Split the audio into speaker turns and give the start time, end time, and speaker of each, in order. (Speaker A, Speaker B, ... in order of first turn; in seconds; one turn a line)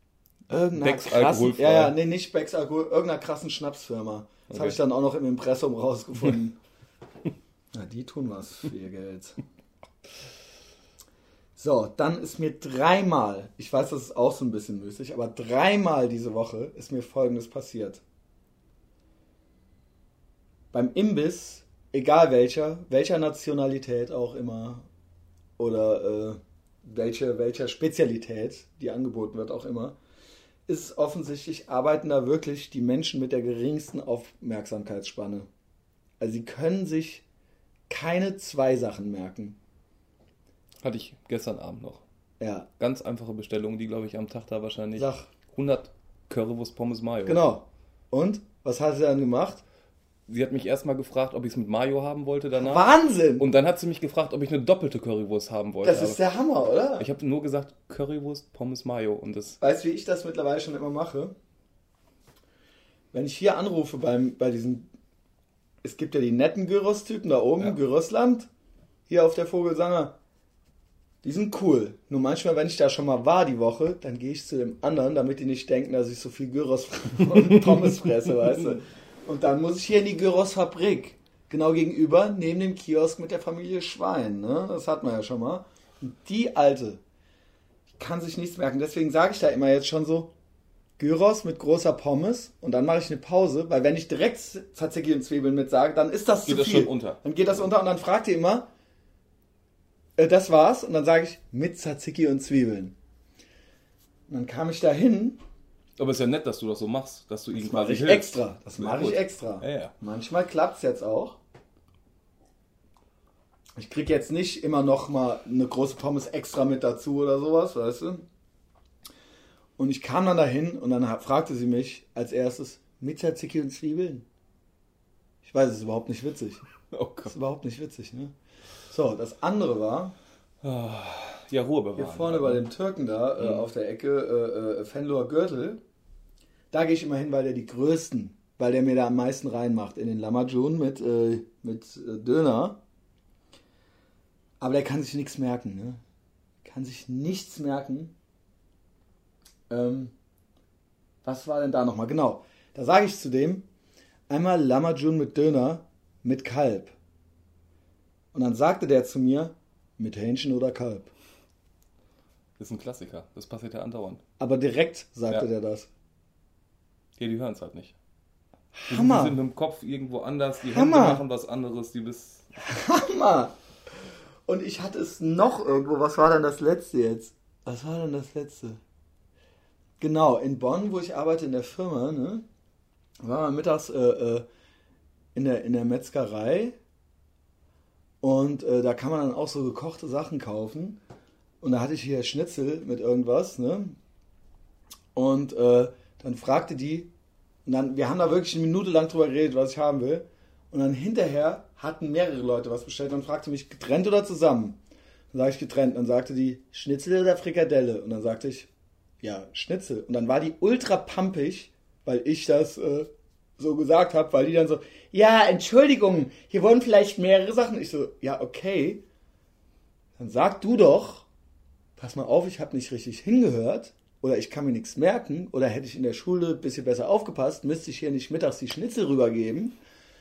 Speaker A: 0.5-6.6
Speaker B: 0.8-1.9
Speaker B: 4.5-4.8
Speaker A: 7.7-9.4
Speaker A: 11.6-18.0
Speaker A: 20.7-24.9
Speaker A: 25.6-30.0
Speaker A: 30.7-35.5
Speaker A: 36.2-37.2
Speaker A: 37.9-39.6
Speaker B: 40.8-42.0
Speaker A: 42.4-42.7
Speaker B: 42.8-47.4
Speaker A: 45.0-45.3
Speaker A: 47.2-49.6
Speaker B: 50.3-56.2
Speaker A: 52.6-53.5
Speaker A: 55.8-57.1
Speaker B: 56.9-59.6
Speaker A: 59.6-61.3
Speaker A: 63.1-64.9
Speaker A: 65.8-68.5
Speaker A: 69.1-70.2
Speaker A: 71.2-87.0
Speaker A: 88.0-90.3
Speaker A: 91.0-98.7
Speaker B: 96.4-97.2
Speaker A: 100.2-102.9
Speaker A: 104.3-105.4
Speaker B: 106.0-109.9
Speaker A: 107.5-111.4
Speaker A: 113.8-118.2
Speaker A: 119.8-124.2
Speaker A: 125.4-126.6
Speaker B: 126.9-127.3
Speaker A: 127.2-128.3
Speaker A: 128.9-130.1
Speaker B: 130.6-132.7
Speaker A: 131.9-135.8
Speaker B: 133.4-133.7
Speaker A: 136.7-142.8
Speaker A: 144.6-146.0
Speaker A: 146.6-148.1
Speaker A: 149.7-150.1
Speaker A: 151.2-153.7
Speaker A: 154.3-156.9
Speaker A: 158.3-161.1
Speaker B: 162.6-164.2
Speaker A: 164.4-165.9
Speaker B: 167.2-167.9
Speaker A: 168.7-169.4
Speaker B: 168.9-172.5
Speaker A: 170.6-171.2
Speaker A: 172.6-173.5
Speaker A: 174.5-178.8
Speaker A: 180.0-182.4
Speaker A: 183.2-184.4
Speaker A: 185.3-186.8
Speaker A: 188.2-191.0
Speaker A: 191.6-194.0
Speaker A: 195.1-197.1
Speaker A: 197.7-204.8
Speaker A: 205.3-208.7
Speaker A: 209.2-219.0
Speaker A: 220.2-221.3
Speaker A: 222.0-229.7